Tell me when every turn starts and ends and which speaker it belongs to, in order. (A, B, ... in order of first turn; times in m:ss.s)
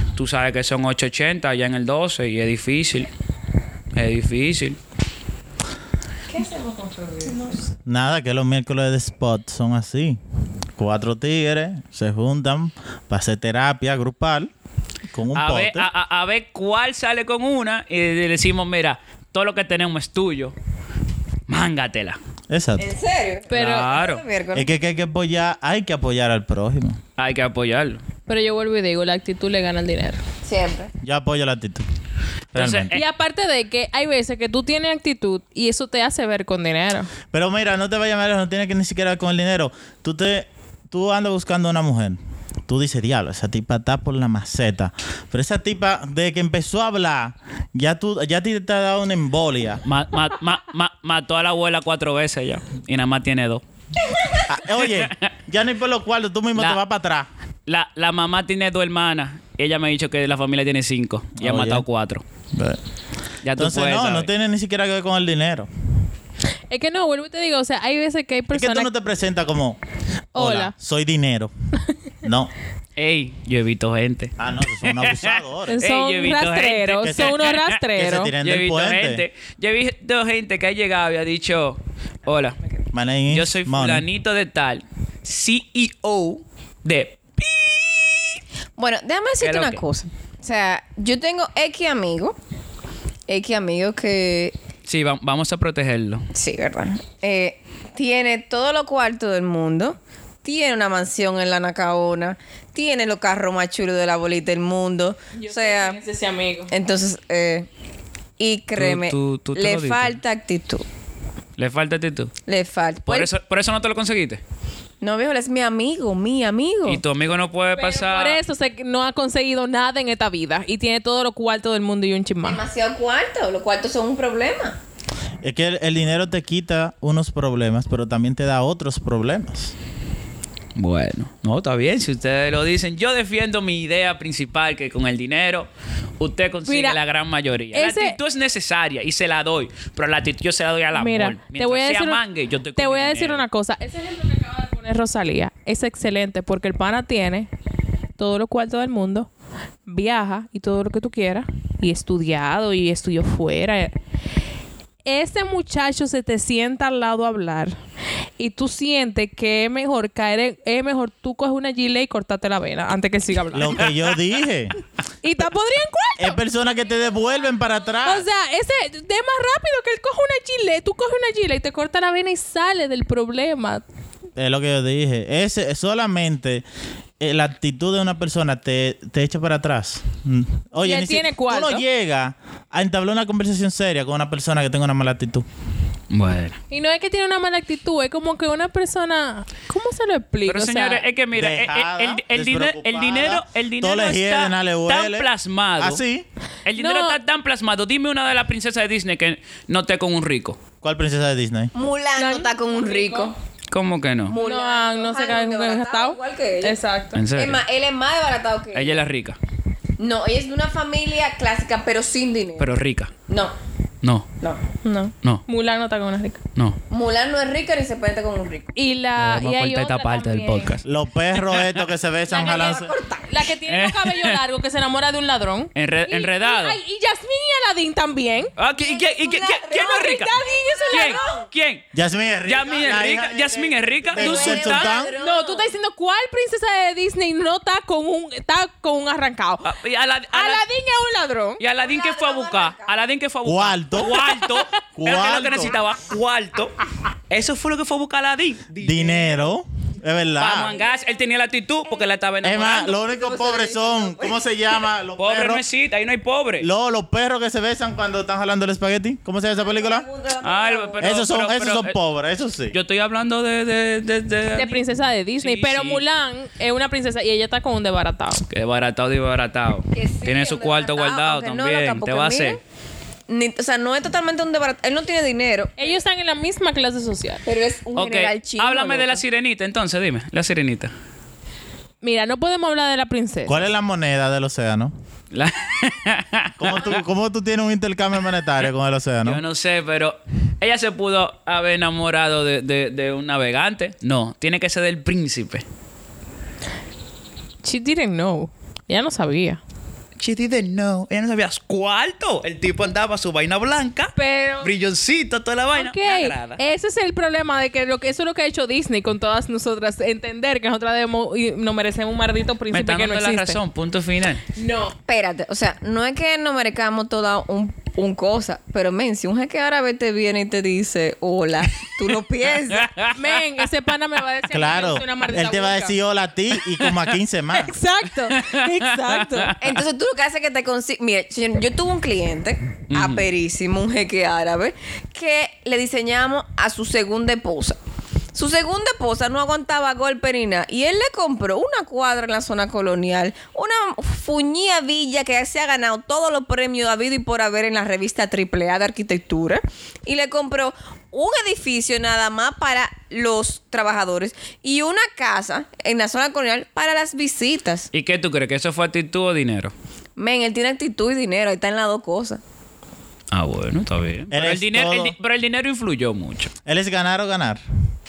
0:00.2-0:03.1 A
0:03.9-0:04.8 A
0:06.3-0:07.7 B
0:07.8-0:10.2 C
0:10.8-0:14.5 C
0:15.1-0:15.9 C
0:15.3-0:20.5 A
0:21.5-0:22.2 A
0:22.5-0:22.8 C
0:22.8-0:24.7 B
0:23.5-0:23.9 D
0:23.5-0:24.2 A
0:24.5-0:27.0 C
0:27.2-0:28.0 A
0:28.3-0:30.2 D
0:30.4-0:30.9 B
0:31.0-0:31.8 C
0:32.5-0:32.9 C
0:32.5-0:33.0 A
0:32.9-0:37.1 D
0:37.3-0:49.8 C
0:49.8-0:53.6 A
0:54.5-0:57.3 C
0:54.8-0:55.3 A
0:57.7-1:02.2 A
1:01.4-1:01.8 C
1:02.5-1:02.8 C
1:03.4-1:04.3 A
1:03.6-1:05.7 C
1:06.7-1:08.9 D
1:08.5-1:09.8 C
1:10.3-1:10.7 D
1:10.3-1:11.5 C
1:12.2-1:12.5 C
1:13.0-1:17.8 A
1:14.4-1:15.8 C
1:15.7-1:18.3 D
1:17.0-1:17.4 C
1:17.9-1:19.2 C
1:18.4-1:22.6 A
1:22.9-1:24.0 C
1:23.3-1:28.4 A
1:28.8-1:32.4 B
1:29.4-1:29.8 A
1:33.3-1:34.5 B
1:34.8-1:36.2 A
1:36.3-1:46.0 B
1:45.3-1:46.7 D
1:46.7-1:47.7 B
1:48.4-1:50.8 B
1:48.7-1:50.2 A
1:51.6-1:52.3 A
1:52.5-1:53.3 B
1:53.0-1:54.4 A
1:55.0-1:57.0 B
1:56.8-1:58.4 A
1:57.7-2:02.6 D
2:02.4-2:04.8 B
2:05.4-2:09.7 C
2:10.8-2:23.4 A
2:16.6-2:17.0 D
2:17.7-2:18.2 D
2:20.9-2:22.2 D
2:22.8-2:27.5 D
2:28.2-2:29.3 D
2:29.9-2:33.9 D
2:35.0-2:37.8 D
2:38.4-2:43.9 D
2:43.5-2:44.7 C
2:43.7-2:44.0 A
2:45.2-2:46.4 D
2:46.2-2:48.2 C
2:48.0-2:53.8 D
2:54.4-2:56.6 C
2:57.2-3:05.4 C
3:00.8-3:01.8 D
3:06.1-3:06.6 A
3:06.7-3:11.0 D
3:10.4-3:16.0 A
3:11.3-3:16.2 C
3:16.6-3:20.6 A
3:16.8-3:17.2 D
3:20.8-3:21.7 C
3:21.7-3:23.3 B
3:22.2-3:23.3 D
3:23.7-3:24.4 A
3:24.2-3:26.8 B
3:24.3-3:27.2 D
3:27.1-3:27.6 A
3:27.3-3:29.0 B
3:28.7-3:29.4 A
3:30.0-3:32.7 B
3:32.6-3:33.1 A
3:33.3-3:33.5 B
3:34.0-3:34.3 A
3:34.8-3:36.4 D
3:36.9-3:38.7 B
3:38.7-3:40.8 D
3:39.2-3:41.8 A
3:40.8-3:42.9 C
3:42.3-3:43.4 B
3:43.3-3:48.5 D
3:43.6-3:44.4 A
3:45.7-3:46.8 A
3:48.6-3:50.3 A
3:48.8-3:51.5 B
3:49.7-3:51.3 D
3:50.9-3:51.8 A
3:51.9-3:55.1 C
3:52.4-3:55.0 A
3:54.2-3:55.7 B
3:55.0-3:59.7 D
3:59.6-4:00.6 A
4:00.3-4:01.6 D
4:01.6-4:06.7 A
4:01.8-4:03.0 B
4:03.4-4:04.2 C
4:04.1-4:04.6 D
4:04.9-4:05.7 C
4:07.3-4:09.4 A
4:08.8-4:10.7 C
4:10.4-4:13.0 A
4:10.6-4:11.0 B
4:12.4-4:15.6 C
4:13.0-4:14.4 B
4:15.2-4:16.7 A
4:16.6-4:20.0 C
4:19.5-4:21.2 B
4:20.4-4:22.0 A
4:21.0-4:22.8 C
4:22.7-4:26.0 A
4:24.5-4:28.4 D
4:28.5-4:32.6 A
4:29.9-4:32.6 B
4:33.3-4:36.0 B
4:35.8-4:37.4 D
4:37.4-4:39.2 B
4:38.0-4:40.9 A
4:42.0-4:43.6 D
4:43.5-4:44.9 C
4:45.3-4:47.0 A
4:46.6-4:49.4 C
4:49.2-4:55.6 A
4:57.6-4:59.6 D
5:00.2-5:06.6 A
5:04.2-5:04.7 D
5:05.7-5:13.6 D
5:12.7-5:14.4 A
5:14.9-5:22.9 B
5:22.7-5:23.2 A
5:23.2-5:25.9 D
5:24.5-5:27.7 C
5:26.8-5:27.0 A
5:27.5-5:29.5 D
5:28.3-5:29.7 A
5:29.6-5:37.8 B
5:32.9-5:33.2 A
5:38.3-5:57.9 B
5:57.9-5:59.7 A
6:00.2-6:02.4 B
6:03.3-6:06.5 A
6:04.3-6:05.1 C
6:06.6-6:07.6 C